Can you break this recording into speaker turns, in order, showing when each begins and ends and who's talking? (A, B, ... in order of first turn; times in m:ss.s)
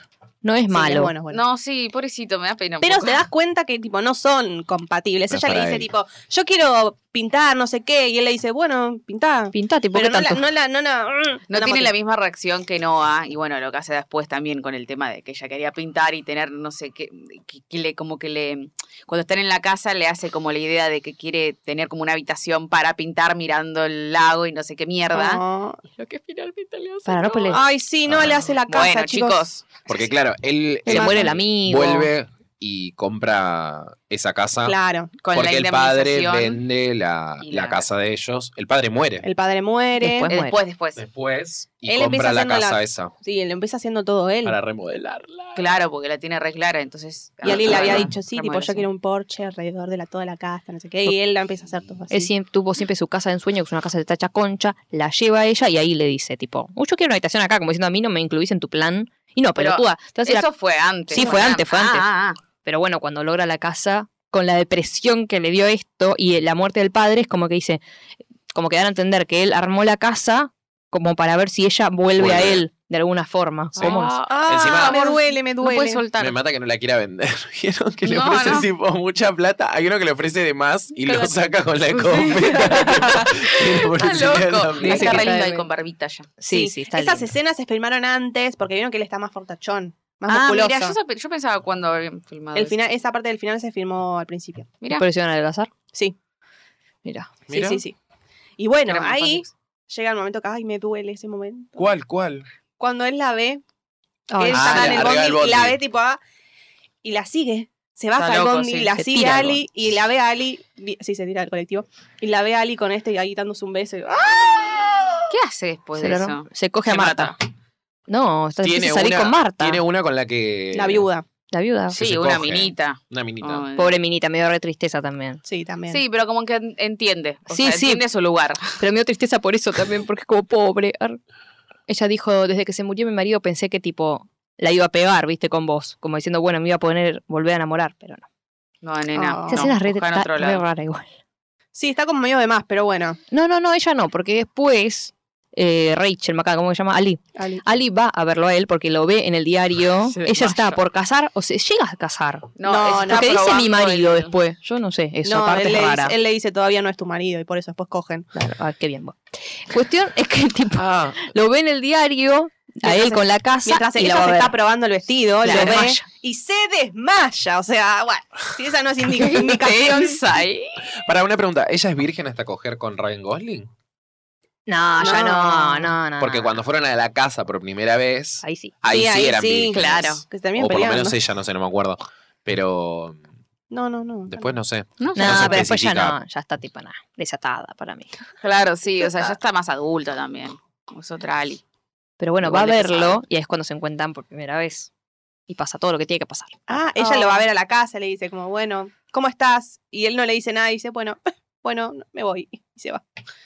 0:00.4-0:01.1 A
0:00.7-0:01.4 B
0:01.3-0:03.2 C
0:02.8-0:11.9 B
0:05.3-0:05.9 D
0:09.5-0:10.4 A
0:11.5-0:27.6 C
0:25.1-0:25.8 B
0:27.0-0:27.6 A
0:27.5-0:29.4 B
0:28.1-0:28.6 D
0:28.7-0:30.1 C
0:29.9-0:34.8 D
0:30.9-0:32.1 A
0:30.9-0:31.3 B
0:34.6-0:35.1 B
0:35.2-0:36.6 C
0:35.3-0:39.3 D
0:37.4-0:37.8 C
0:39.2-0:40.3 B
0:40.0-0:40.6 A
0:40.3-0:41.0 C
0:41.0-0:43.1 D
0:41.9-0:44.6 B
0:44.4-0:45.8 D
0:45.6-0:48.9 C
0:47.4-0:52.3 B
0:52.1-1:00.5 A
0:59.6-1:02.4 C
1:01.1-1:02.0 A
1:02.6-1:07.8 A
1:08.5-1:14.2 A
1:12.2-1:12.6 D
1:13.8-1:15.0 D
1:13.8-1:16.4 C
1:14.3-1:16.0 B
1:16.2-1:25.3 D
1:18.0-1:18.7 C
1:21.0-1:21.4 C
1:21.9-1:26.3 C
1:24.8-1:25.7 A
1:26.4-1:27.3 A
1:26.5-1:31.0 B
1:30.3-1:32.8 C
1:32.5-1:34.7 B
1:34.9-1:35.7 A
1:37.0-1:37.4 A
1:37.5-1:37.8 D
1:37.5-1:38.0 B
1:38.6-1:41.9 B
1:38.9-1:39.5 C
1:41.8-1:42.4 D
1:42.8-1:43.6 B
1:44.3-1:45.0 A
1:44.3-1:46.2 B
1:44.5-1:45.1 C
1:44.5-1:45.8 D
1:47.0-1:55.3 B
1:48.2-1:48.9 C
1:49.0-1:49.6 A
1:55.3-1:57.4 C
1:56.0-1:57.3 A
1:58.1-1:59.8 A
1:58.6-2:01.1 D
2:00.7-2:01.2 B
2:01.5-2:02.0 A
2:01.9-2:04.0 C
2:01.9-2:03.6 D
2:03.8-2:05.4 A
2:05.4-2:06.0 B
2:05.9-2:08.8 C
2:07.5-2:08.0 A
2:08.8-2:11.2 A
2:11.9-2:18.2 A
2:18.8-2:20.6 C
2:19.1-2:19.7 B
2:19.5-2:21.1 A
2:21.7-2:23.2 B
2:23.3-2:32.5 A
2:27.4-2:27.6 B
2:30.0-2:30.8 C
2:32.6-2:34.3 C
2:32.6-2:33.4 B
2:33.0-2:36.1 A
2:35.2-2:38.3 B
2:38.3-2:44.5 A
2:40.8-2:41.2 D
2:42.8-2:50.2 B
2:45.4-2:46.0 A
2:45.4-2:45.9 C
2:49.1-2:50.9 C
2:50.8-2:53.7 D
2:54.7-2:56.5 A
2:55.0-2:56.0 B
2:56.2-3:03.2 D
2:58.4-2:58.7 A
2:58.9-3:01.2 B
2:59.7-3:00.2 C
3:03.7-3:04.5 B
3:04.3-3:06.2 D
3:05.0-3:05.6 C
3:05.1-3:08.1 A
3:08.4-3:11.6 C
3:12.2-3:14.9 A
3:12.4-3:13.2 C
3:15.5-3:17.4 A
3:16.7-3:23.0 B